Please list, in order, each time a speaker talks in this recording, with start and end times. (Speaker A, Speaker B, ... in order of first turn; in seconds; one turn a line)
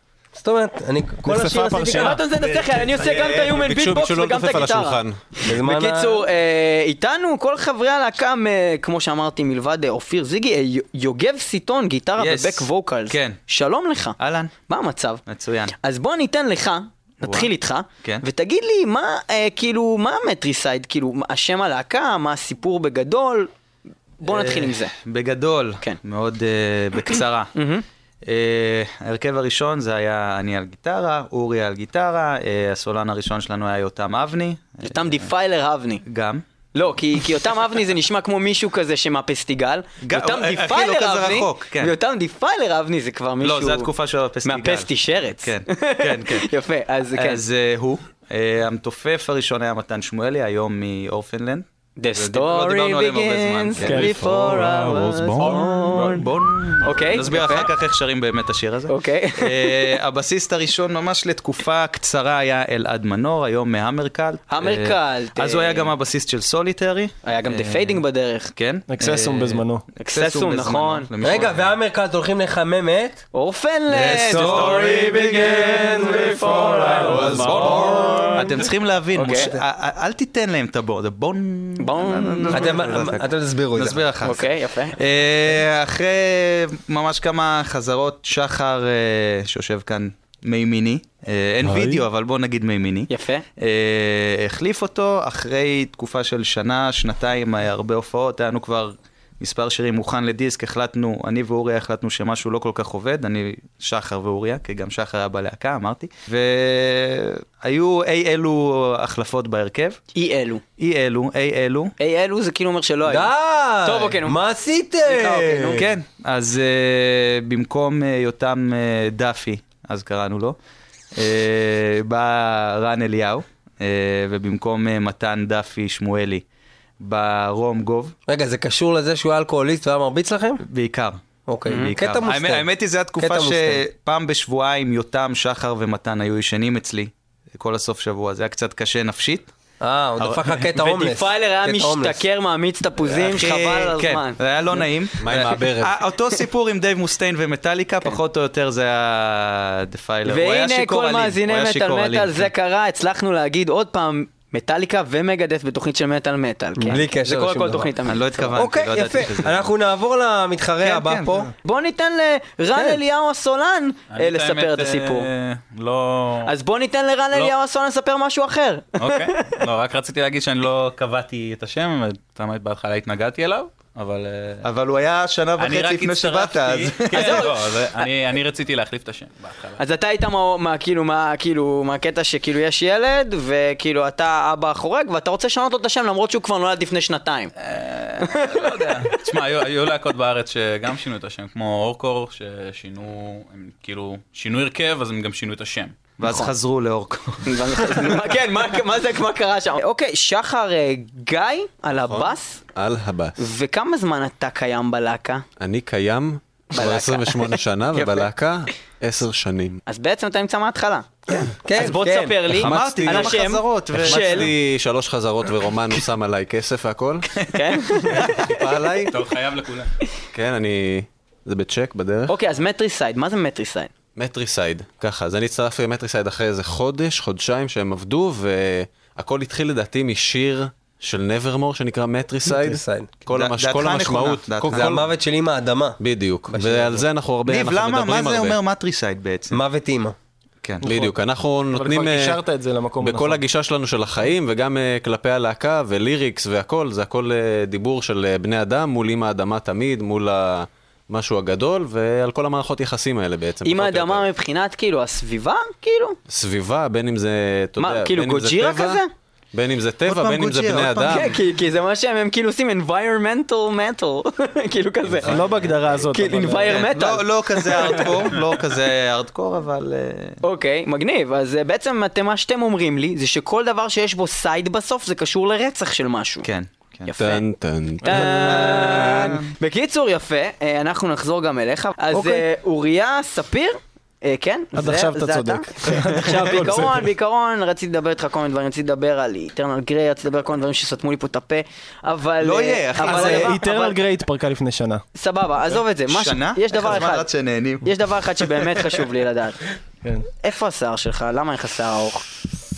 Speaker A: 0.3-2.3
Speaker B: 1.2-2.2
Speaker C: 1.9-15.2
Speaker D: 2.5-5.4
Speaker A: 5.4-6.2
Speaker E: 12.2-13.4
Speaker E: 14.2-14.5
Speaker E: 15.2-15.7
Speaker C: 15.8-23.5
Speaker E: 17.2-17.5
Speaker C: 24.2-24.9
Speaker E: 24.2-27.5
Speaker C: 27.5-27.8
Speaker E: 28.2-35.3
Speaker C: 34.8-36.0
Speaker E: 36.0-36.4
Speaker C: 36.7-43.9
Speaker E: 40.0-41.9
Speaker E: 43.4-46.5
Speaker C: 44.4-47.4
Speaker E: 47.1-54.2
Speaker C: 52.0-56.3
Speaker D: 53.8-56.0
Speaker E: 55.4-68.0
Speaker C: 56.8-57.7
Speaker C: 58.9-59.9
Speaker C: 64.5-65.9
Speaker C: 67.2-68.5
Speaker E: 68.5-71.7
Speaker B: 68.9-69.8
Speaker C: 70.0-71.1
Speaker A: 71.2-73.2
Speaker C: 73.3-78.3
Speaker E: 73.9-76.5
Speaker A: 73.9-78.5
Speaker F: 77.1-78.5
Speaker E: 77.2-110.0
Speaker D: 77.3-78.0
Speaker C: 79.1-79.5
Speaker A: 79.1-79.6
Speaker C: 81.8-82.8
Speaker A: 82.5-84.0
Speaker C: 84.2-85.0
Speaker D: 91.6-92.0
Speaker C: 93.1-93.4
Speaker C: 110.1-110.6
Speaker E: 110.8-111.9
Speaker C: 112.0-113.3
Speaker A: 113.0-115.8
Speaker C: 113.8-114.4
Speaker C: 115.0-115.8
Speaker E: 115.7-120.6
Speaker E: 121.1-126.4
Speaker E: 127.0-128.1
Speaker A: 128.3-130.6
Speaker E: 130.6-139.5
Speaker A: 131.4-132.7
Speaker A: 133.2-133.8
Speaker A: 139.8-142.2
Speaker E: 140.2-140.7
Speaker C: 140.7-144.4
Speaker E: 143.0-152.5
Speaker D: 145.2-146.0
Speaker C: 150.2-158.6
Speaker A: 156.8-157.9
Speaker E: 158.0-159.7
Speaker A: 158.5-161.5
Speaker E: 160.8-161.5
Speaker C: 161.6-165.3
Speaker F: 164.1-166.5
Speaker C: 166.4-169.6
Speaker F: 169.0-174.6
Speaker E: 174.6-177.6
Speaker F: 175.6-179.8
Speaker C: 177.1-177.6
Speaker C: 179.8-187.5
Speaker F: 187.6-196.1
Speaker C: 188.2-189.0
Speaker E: 196.2-198.2
Speaker C: 196.2-196.5
Speaker C: 197.4-202.6
Speaker D: 201.9-203.3
Speaker C: 203.4-205.4
Speaker D: 205.6-209.8
Speaker C: 206.7-208.3
Speaker C: 209.9-214.5
Speaker A: 211.6-212.5
Speaker E: 212.5-214.5
Speaker D: 212.7-213.1
Speaker D: 213.9-217.3
Speaker C: 217.5-218.6
Speaker D: 218.0-219.2
Speaker F: 219.1-219.9
Speaker D: 220.3-222.3
Speaker C: 222.3-223.9
Speaker D: 224.2-235.1
Speaker A: 232.4-233.1
Speaker E: 233.3-235.0
Speaker A: 234.7-237.1
Speaker D: 236.0-238.6
Speaker E: 237.4-239.6
Speaker A: 239.5-240.1
Speaker D: 240.8-242.4
Speaker B: 240.8-241.1
Speaker B: 241.7-243.4
Speaker D: 243.0-254.3
Speaker C: 253.6-256.2
Speaker D: 256.3-259.0
Speaker C: 257.8-259.1
Speaker D: 259.5-261.3
Speaker E: 260.0-261.3
Speaker C: 261.1-265.4
Speaker D: 265.1-266.0
Speaker B: 265.2-266.9
Speaker C: 266.1-268.2
Speaker E: 266.6-270.4
Speaker C: 270.4-276.5
Speaker E: 276.4-277.1
Speaker C: 277.1-277.4
Speaker D: 277.2-279.4
Speaker C: 278.0-294.0
Speaker E: 278.1-279.4
Speaker B: 282.1-282.4
Speaker B: 284.7-287.1
Speaker E: 285.9-286.8
Speaker E: 292.4-293.6
Speaker B: 293.0-295.0
Speaker C: 295.1-297.3
Speaker E: 296.1-297.9
Speaker C: 297.8-299.6
Speaker C: 300.4-302.2